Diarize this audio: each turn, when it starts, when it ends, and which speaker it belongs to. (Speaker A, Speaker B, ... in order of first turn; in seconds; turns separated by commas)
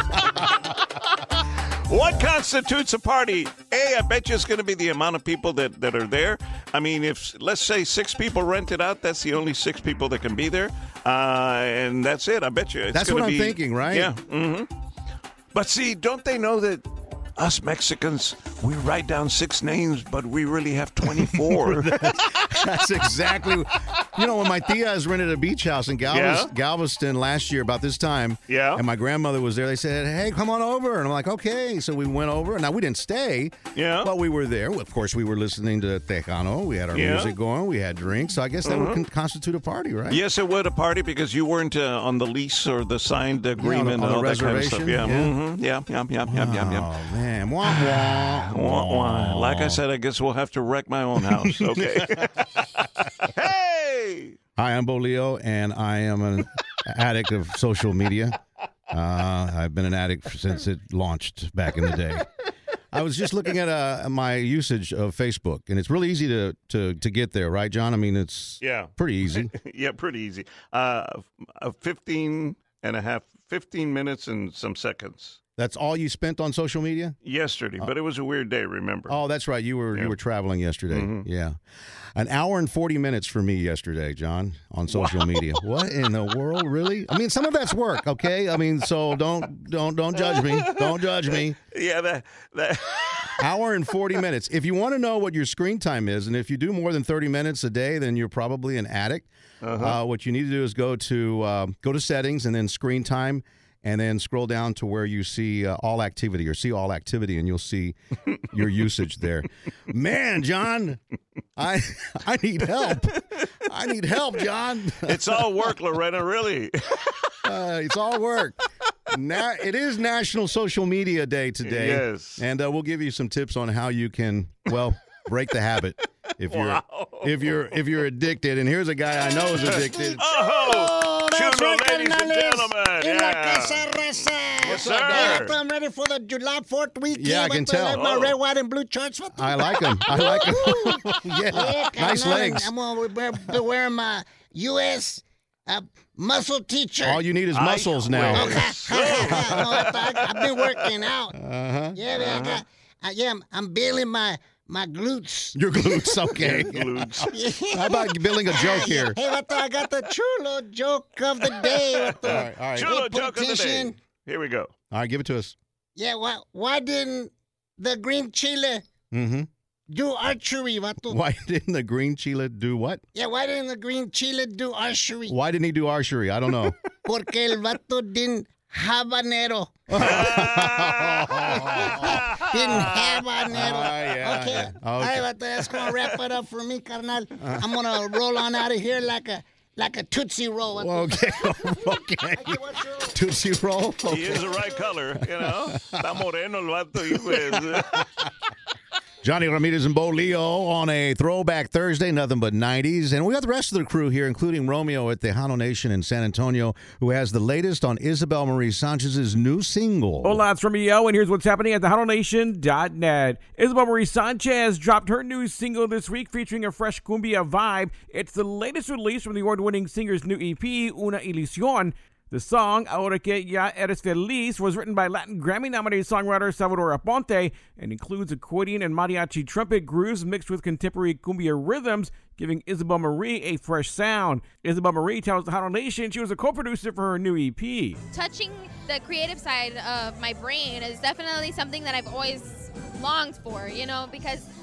Speaker A: 0.4-14.7, Speaker B: 12.9-14.1, Speaker A: 15.5-22.6, Speaker B: 21.3-40.2, Speaker A: 26.1-26.5, Speaker A: 28.5-28.8, Speaker A: 33.7-34.1, Speaker A: 36.9-37.4, Speaker A: 38.6-39.0, Speaker A: 40.1-46.9, Speaker B: 43.6-45.3, Speaker B: 46.3-49.8, Speaker A: 47.6-54.4, Speaker B: 51.2-52.3, Speaker B: 54.6-58.4, Speaker B: 58.9-62.3, Speaker B: 62.9-69.5, Speaker A: 68.6-75.4, Speaker B: 75.6-77.2, Speaker A: 77.2-79.2, Speaker B: 79.1-81.6, Speaker A: 80.9-81.2, Speaker B: 82.1-91.6, Speaker A: 84.9-85.7, Speaker A: 90.2-93.4, Speaker B: 93.3-111.0, Speaker A: 99.6-100.0, Speaker B: 111.5-115.4, Speaker A: 115.0-117.3, Speaker B: 117.4-130.2, Speaker A: 121.6-122.4, Speaker A: 126.5-127.6, Speaker A: 129.6-135.5, Speaker C: 130.3-147.2, Speaker B: 134.6-135.5, Speaker B: 137.1-138.3, Speaker B: 139.3-142.7, Speaker B: 147.0-149.9, Speaker A: 147.5-150.8, Speaker C: 148.3-151.4, Speaker B: 151.3-152.0, Speaker C: 151.9-156.4, Speaker A: 152.1-152.6, Speaker B: 155.5-159.2, Speaker A: 156.4-157.3, Speaker C: 157.2-163.9, Speaker A: 161.4-164.7, Speaker B: 162.2-162.9, Speaker B: 164.9-165.6, Speaker C: 165.9-168.8, Speaker B: 169.1-169.5, Speaker C: 169.9-171.2, Speaker B: 171.0-173.0, Speaker C: 173.1-175.3, Speaker B: 175.3-176.8, Speaker C: 177.0-180.4, Speaker B: 179.9-183.0, Speaker A: 180.0-183.2, Speaker C: 181.4-193.2, Speaker B: 183.5-186.1, Speaker B: 187.4-187.7, Speaker B: 190.7-194.6, Speaker A: 194.1-198.3, Speaker B: 195.4-196.1, Speaker B: 197.1-198.0, Speaker B: 199.2-210.4, Speaker D: 210.2-238.0, Speaker E: 238.1-244.5